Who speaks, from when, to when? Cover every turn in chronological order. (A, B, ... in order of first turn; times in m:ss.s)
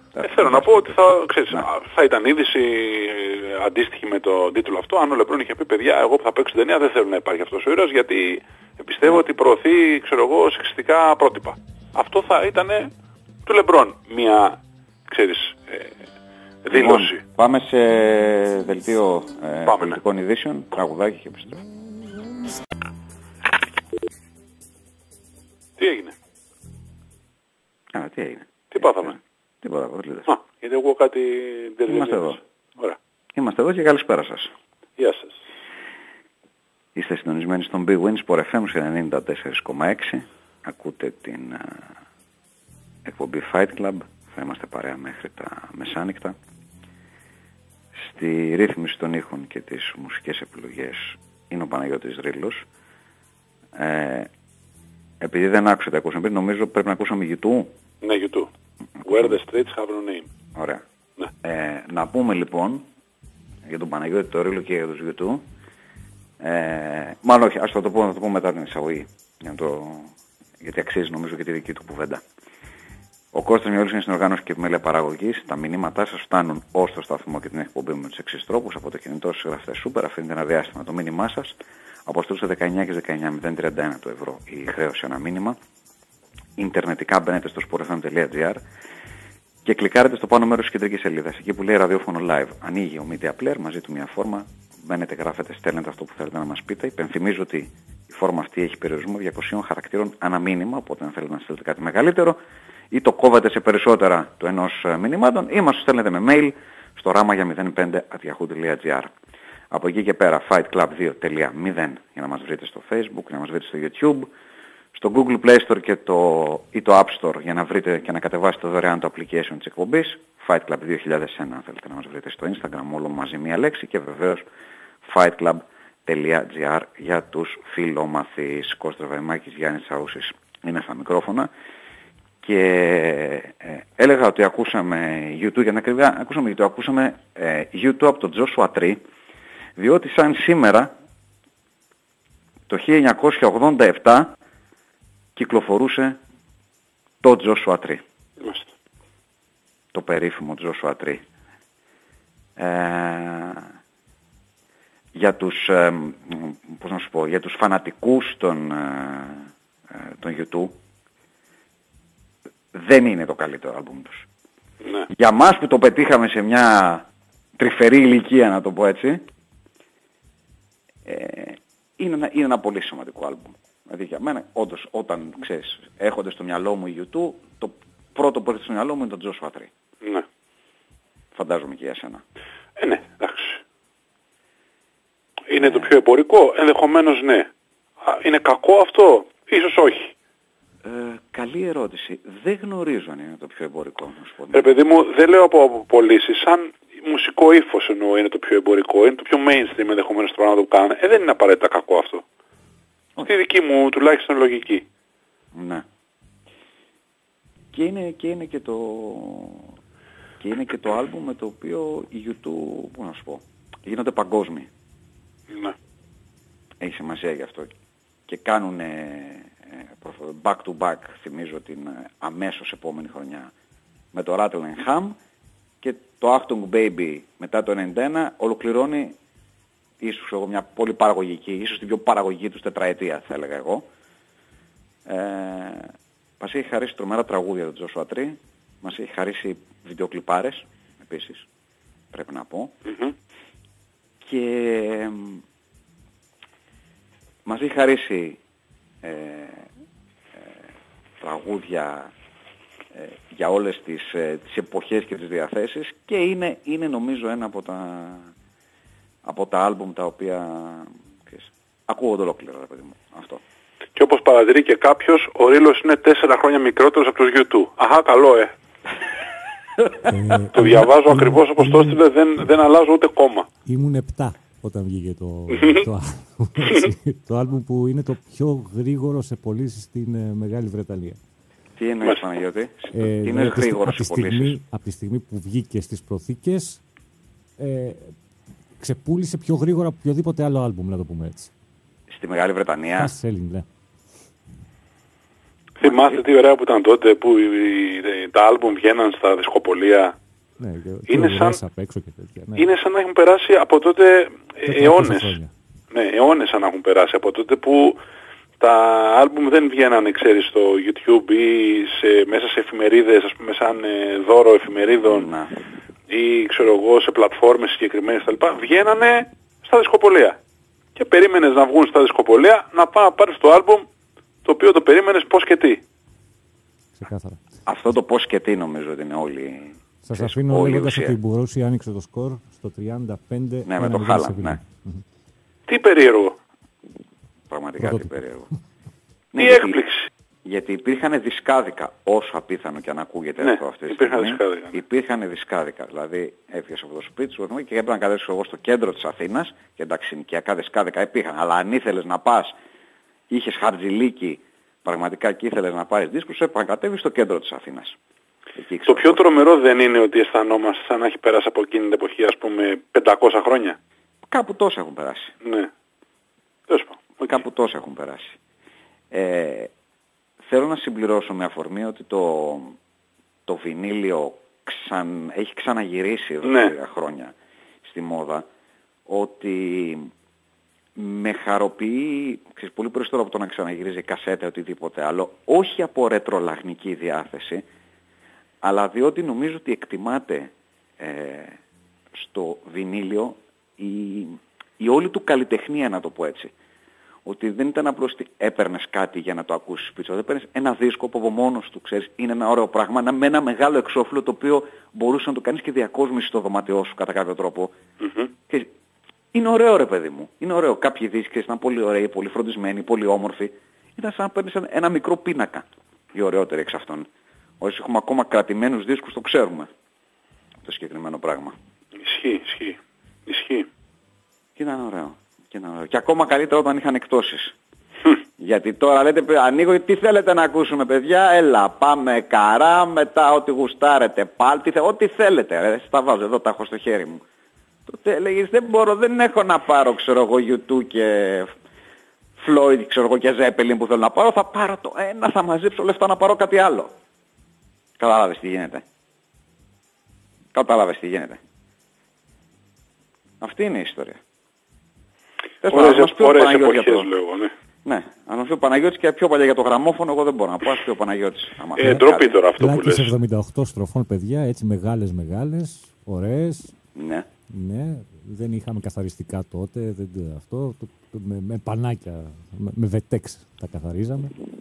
0:00.1-0:01.7 A
0:00.2-0:12.9 B
0:13.5-0:15.9 B
0:16.6-0:17.2 B
0:16.7-0:21.7 A
0:19.6-0:20.0 B
0:25.8-0:26.1 B
0:27.9-0:30.3 A
0:28.7-0:29.2 B
0:30.3-0:33.0 B
0:31.9-0:32.4 A
0:33.3-0:34.5 A
0:35.0-0:35.4 B
0:37.0-0:41.9 A
0:43.0-0:46.4 A
0:48.0-0:52.6 A
0:53.8-0:54.3 A
0:55.2-0:57.7 A
0:58.0-0:58.5 B
0:59.0-0:59.3 A
0:59.0-1:00.3 B
1:00.6-1:00.8 A
1:01.4-1:02.9 A
1:03.7-1:05.4 A
1:06.4-1:12.2 A
1:13.3-1:25.6 A
1:26.6-1:28.6 A
1:29.6-1:42.4 A
1:42.9-1:49.1 A
1:49.7-1:54.3 A
1:54.9-2:04.5 A
2:05.0-2:11.5 A
2:12.4-2:19.0 A
2:19.8-2:20.9 A
2:22.7-2:24.3 A
2:25.4-2:26.2 A
2:27.2-2:28.0 A
2:28.4-2:28.7 B
2:29.9-2:31.2 A
2:32.6-2:33.7 A
2:35.2-2:40.7 A
2:42.7-2:44.3 A
2:44.8-2:45.1 B
2:45.1-2:47.0 A
2:47.6-2:49.2 A
2:51.1-2:59.7 A
3:01.4-3:02.2 A
3:02.8-3:03.6 B
3:05.5-3:07.5 B
3:05.6-3:06.0 A
3:08.0-3:10.1 B
3:10.8-3:14.7 A
3:14.5-3:22.2 B
3:23.2-3:24.9 B
3:25.5-3:25.8 A
3:27.7-3:29.7 A
3:30.4-3:34.7 A
3:35.5-3:35.8 B
3:36.8-3:37.7 A
3:38.3-3:43.5 A
3:44.1-3:45.2 A
3:45.8-3:49.2 A
3:50.0-3:53.9 A
3:55.1-4:01.5 A
4:02.1-4:02.7 A
4:02.8-4:03.1 B
4:04.2-4:05.4 A
4:07.5-4:08.4 A
4:09.0-4:09.7 A
4:11.2-4:12.1 A
4:12.9-4:18.3 A
4:19.2-4:23.4 A
4:24.0-4:28.5 B
4:30.1-4:32.0 C
4:30.5-4:33.5 B
4:33.7-4:41.2 C
4:35.6-4:35.8 B
4:41.8-4:44.6 A
4:42.9-4:46.8 C
4:47.6-4:48.2 C
4:48.8-4:51.5 C
4:52.1-4:53.1 A
4:52.9-4:53.7 C
4:55.8-5:00.2 B
4:55.8-4:56.2 A
5:00.6-5:02.7 C
5:01.1-5:01.6 B
5:02.6-5:05.4 B
5:04.7-5:05.5 C
5:05.9-5:08.0 B
5:08.6-5:15.3 B
5:15.0-5:15.6 A
5:16.1-5:20.4 B
5:21.0-5:23.9 B
5:24.4-5:25.8 B
5:27.0-5:27.4 C
5:27.7-5:31.2 A
5:30.0-5:35.0 C
5:33.6-5:34.6 A
5:35.7-5:36.4 B
5:37.5-5:38.5 A
5:39.3-5:39.8 A
5:39.4-5:40.1 B
5:40.4-5:52.6 A
5:43.4-5:44.8 B
5:53.3-5:58.0 A
5:58.6-5:59.2 A
5:58.9-6:03.8 B
6:04.3-6:05.4 A
6:05.4-6:05.7 B
6:06.7-6:07.4 B
6:07.2-6:08.4 A
6:09.1-6:09.7 A
6:10.5-6:12.8 A
6:13.5-6:18.5 A
6:16.4-6:16.7 B
6:19.1-6:20.1 A
6:21.0-6:27.6 A
6:28.6-6:31.6 A
6:32.1-6:36.5 A
6:37.2-6:47.8 A
6:48.0-6:48.3 B
6:49.3-6:57.1 A
6:57.6-6:59.7 A
7:00.6-7:01.6 A
7:02.0-7:03.7 B
7:04.6-7:07.6 A
7:08.4-7:17.2 A
7:17.9-7:21.5 A
7:22.4-7:26.9 A
7:28.0-7:28.8 A
7:30.5-7:31.4 A
7:33.4-7:34.2 A
7:35.6-7:37.1 A
7:35.6-7:37.5 B
7:37.8-7:42.4 A
7:41.8-7:43.1 B
7:42.6-7:46.7 C
7:47.0-7:47.3 A
7:47.5-7:54.3 C